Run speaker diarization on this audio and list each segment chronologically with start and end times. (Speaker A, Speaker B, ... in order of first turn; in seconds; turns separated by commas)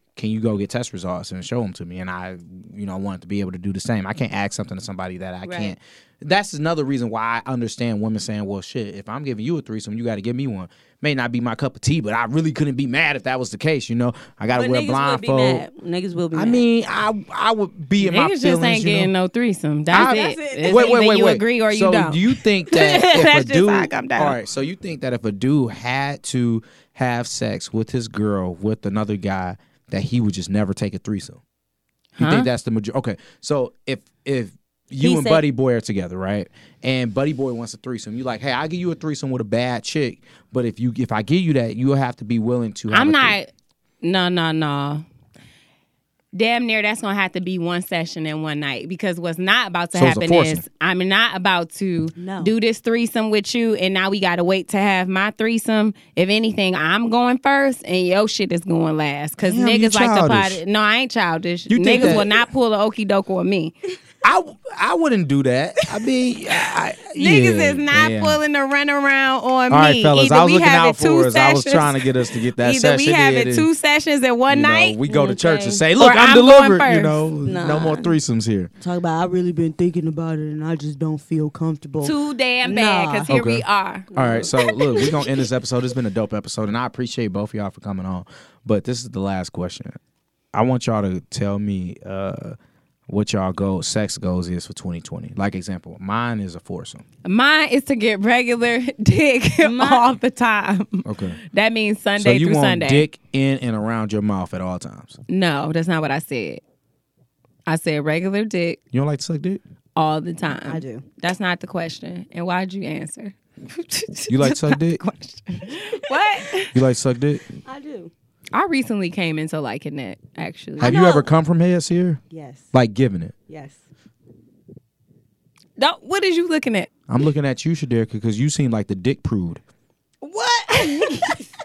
Speaker A: 0.2-15.7, Speaker B: 5.4-5.7, Speaker B: 14.5-16.6, Speaker A: 16.3-19.1, Speaker C: 18.0-24.4, Speaker A: 19.9-31.4, Speaker B: 19.9-21.0, Speaker C: 32.2-32.5, Speaker A: 32.2-43.4, Speaker B: 35.0-35.4, Speaker C: 42.9-43.5, Speaker C: 44.0-45.0, Speaker C: 46.3-63.8, Speaker A: 49.9-50.6, Speaker B: 52.2-52.5, Speaker A: 59.4-60.6, Speaker A: 61.7-62.3, Speaker A: 64.2-68.4, Speaker C: 67.2-75.0, Speaker A: 69.7-73.7, Speaker A: 74.5-78.7, Speaker B: 75.1-75.8, Speaker C: 76.0-77.2, Speaker B: 77.4-78.2, Speaker B: 78.8-83.3, Speaker C: 82.0-85.2, Speaker A: 83.3-90.0, Speaker B: 84.1-85.2, Speaker A: 90.5-92.6, Speaker A: 93.1-97.0, Speaker C: 97.2-103.1, Speaker B: 99.6-100.1, Speaker A: 101.0-101.4, Speaker A: 102.2-105.2, Speaker C: 105.3-106.6, Speaker C: 107.7-108.8, Speaker A: 108.9-109.6, Speaker C: 110.0-116.8, Speaker B: 110.5-111.0, Speaker A: 114.3-115.0, Speaker B: 116.0-116.4, Speaker A: 116.7-117.4, Speaker B: 117.6-118.1, Speaker C: 118.5-121.2, Speaker A: 120.8-122.2, Speaker B: 122.3-122.7, Speaker A: 122.7-123.3, Speaker B: 123.5-123.8, Speaker C: 125.8-126.9, Speaker A: 127.1-129.6, Speaker B: 130.2-131.4, Speaker C: 130.7-131.4